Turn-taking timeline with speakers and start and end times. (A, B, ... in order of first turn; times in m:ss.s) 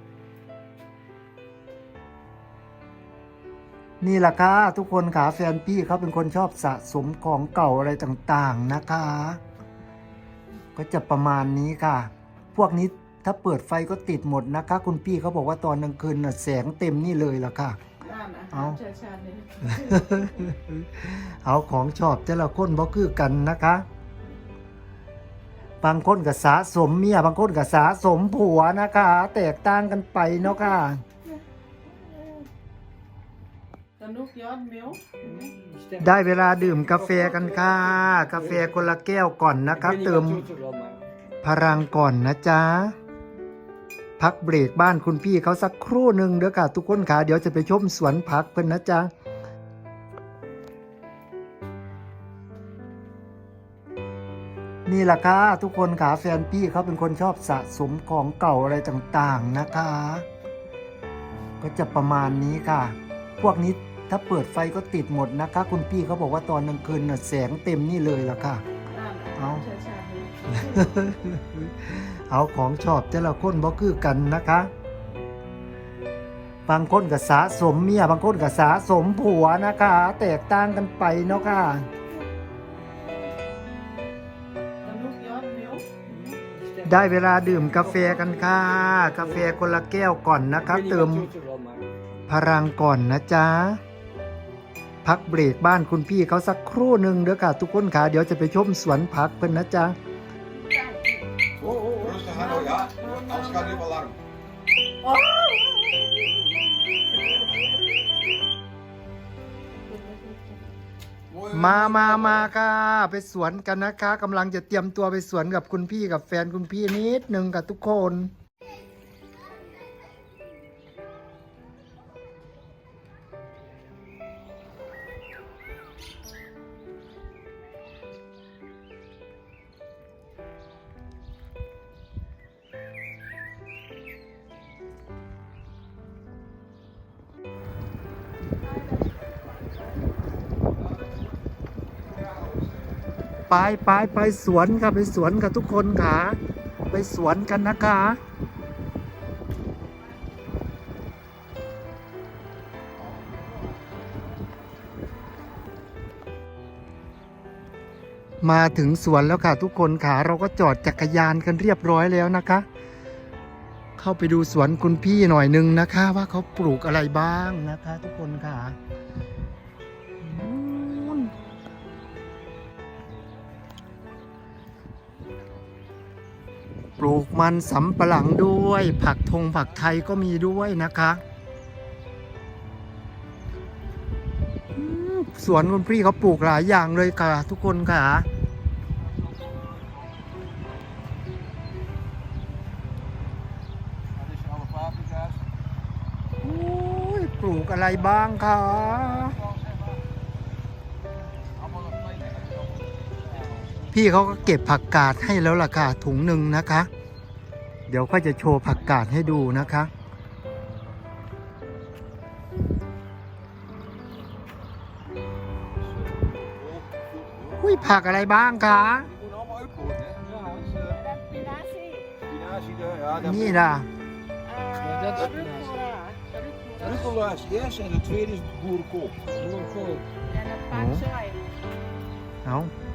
0:04.0-0:09.4 A
0:10.8-0:17.8 A
0:18.0-0:20.3 B
0:18.5-0:18.8 A
0:19.6-0:23.9 A
0:25.8-0:31.0 A
0:34.0-0:35.5 B
0:35.2-0:38.6 C
0:36.0-0:40.5 A
0:39.8-0:41.1 C
0:41.4-0:43.0 A
0:44.2-0:49.1 A
0:54.9-1:00.3 A
1:01.6-1:08.6 A
1:08.9-1:10.9 B
1:09.4-1:09.6 A
1:10.5-1:14.7 A
1:16.7-1:21.9 A
1:24.8-1:26.4 B
1:26.4-1:28.4 C
1:26.8-1:31.3 A
1:30.6-1:31.9 C
1:32.3-1:33.8 A
1:35.0-1:40.0 A
1:40.5-1:44.0 B
1:41.7-1:42.2 C
1:43.8-1:44.1 D
1:45.0-1:46.5 B
1:47.1-1:47.8 B
1:49.8-1:50.7 B
1:51.5-1:58.3 A
2:18.5-2:20.2 B
2:23.5-2:26.4 A
2:26.9-2:28.2 A
2:38.4-2:42.6 A
2:44.0-2:48.8 A
2:50.2-2:51.3 A
2:57.0-3:01.2 A
3:04.7-3:08.3 A
3:14.6-3:15.3 D
3:16.4-3:19.4 A
3:21.8-3:22.7 D
3:23.9-3:26.9 A
3:27.9-3:29.9 A
3:37.6-3:39.1 A
3:39.2-3:40.2 D
3:40.2-3:40.8 C
3:40.8-3:42.2 B
3:42.3-3:43.2 D
3:43.1-3:43.9 A
3:44.4-3:47.3 B
3:44.8-3:45.7 C
3:47.2-3:49.3 D
3:49.4-3:50.0 C
3:50.2-3:51.4 B
3:50.7-3:51.0 A
3:52.4-3:52.7 A